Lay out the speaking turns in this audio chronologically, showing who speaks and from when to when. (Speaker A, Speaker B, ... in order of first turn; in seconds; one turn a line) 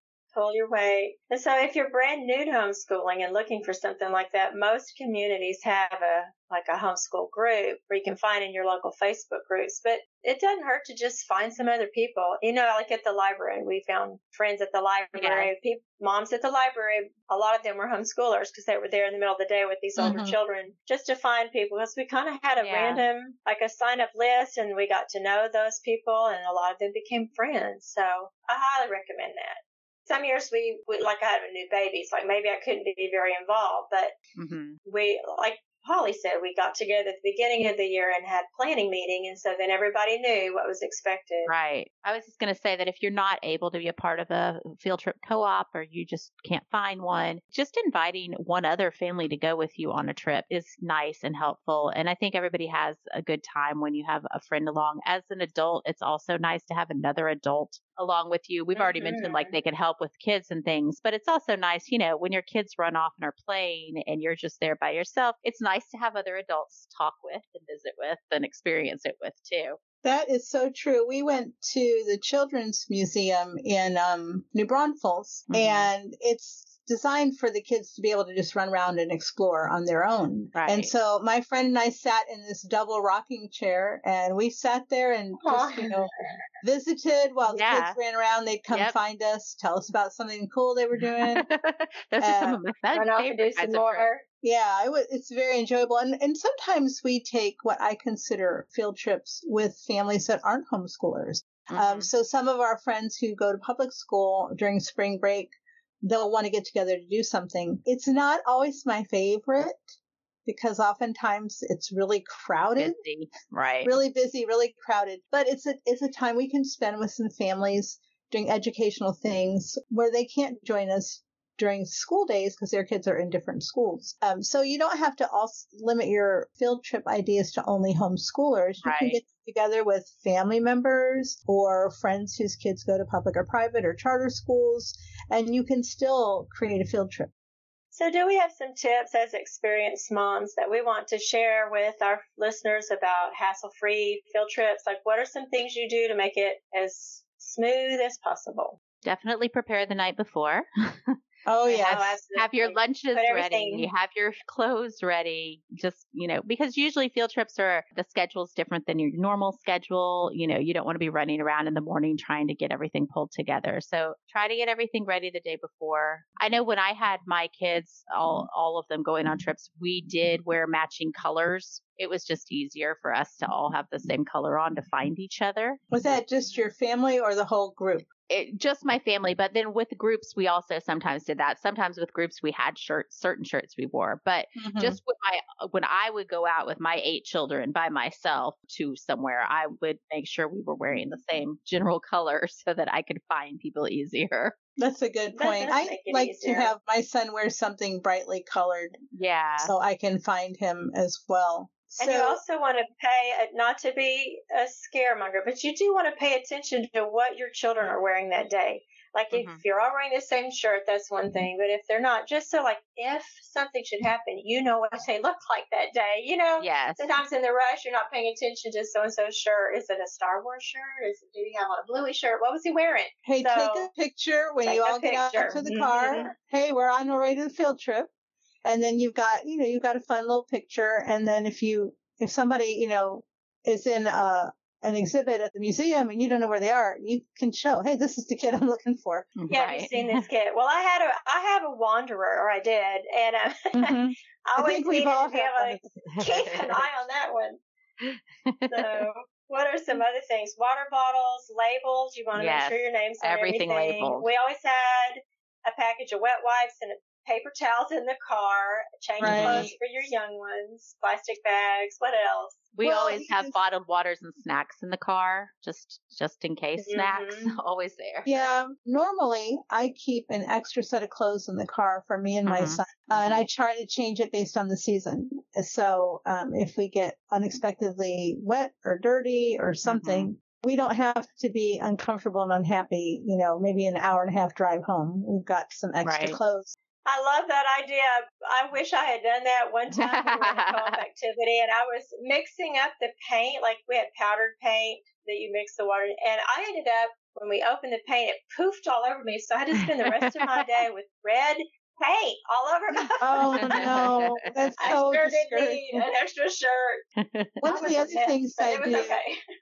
Speaker A: 0.3-34.1
Speaker B: 15.2-15.5
Speaker C: 20.0-20.4
Speaker B: 22.6-23.0
Speaker B: 34.4-34.8
Speaker A: 34.8-41.5
Speaker B: 41.5-69.8
Speaker A: 58.7-59.5
Speaker C: 70.0-86.1
Speaker B: 75.5-75.9
Speaker B: 80.5-80.9
Speaker A: 85.4-86.2
Speaker C: 86.6-91.5
Speaker B: 87.5-88.0
Speaker B: 91.2-94.1
Speaker C: 92.2-92.6
Speaker A: 92.9-94.2
Speaker C: 94.4-109.9
Speaker B: 101.7-102.1
Speaker C: 110.5-113.0
Speaker B: 112.8-113.9
Speaker C: 113.8-137.3
Speaker B: 128.8-129.2
Speaker A: 137.9-148.8
Speaker B: 149.0-151.2
Speaker C: 151.5-152.2
Speaker A: 151.7-153.9
Speaker B: 151.7-175.8
Speaker C: 175.9-178.1
Speaker B: 178.3-194.6
Speaker C: 184.6-185.0
Speaker C: 190.9-191.2
Speaker C: 194.8-199.0
Speaker A: 195.3-196.7
Speaker B: 199.1-199.7
Speaker C: 199.6-202.4
Speaker A: 202.0-223.9
Speaker B: 209.3-209.6
Speaker B: 216.6-217.1
Speaker C: 223.2-228.1
Speaker A: 224.6-226.3
Speaker C: 228.6-239.3
Speaker B: 239.4-240.2
Speaker A: 239.5-243.9
Speaker C: 243.7-246.3
Speaker A: 244.5-247.6
Speaker B: 246.1-246.8
Speaker B: 248.0-249.1
Speaker A: 248.7-262.7
Speaker B: 252.3-254.3
Speaker B: 259.2-259.7
Speaker C: 259.2-259.7
Speaker B: 262.7-268.3
Speaker C: 262.8-263.6
Speaker A: 266.8-267.5
Speaker C: 268.2-286.7
Speaker B: 272.4-273.4
Speaker B: 279.9-280.3
Speaker B: 286.0-286.4
Speaker A: 287.1-303.9
Speaker B: 289.9-291.0
Speaker B: 299.8-300.7
Speaker C: 303.2-306.0
Speaker B: 303.5-304.7
Speaker A: 304.8-307.0
Speaker B: 307.2-307.8
Speaker C: 307.6-309.2
Speaker A: 307.6-309.4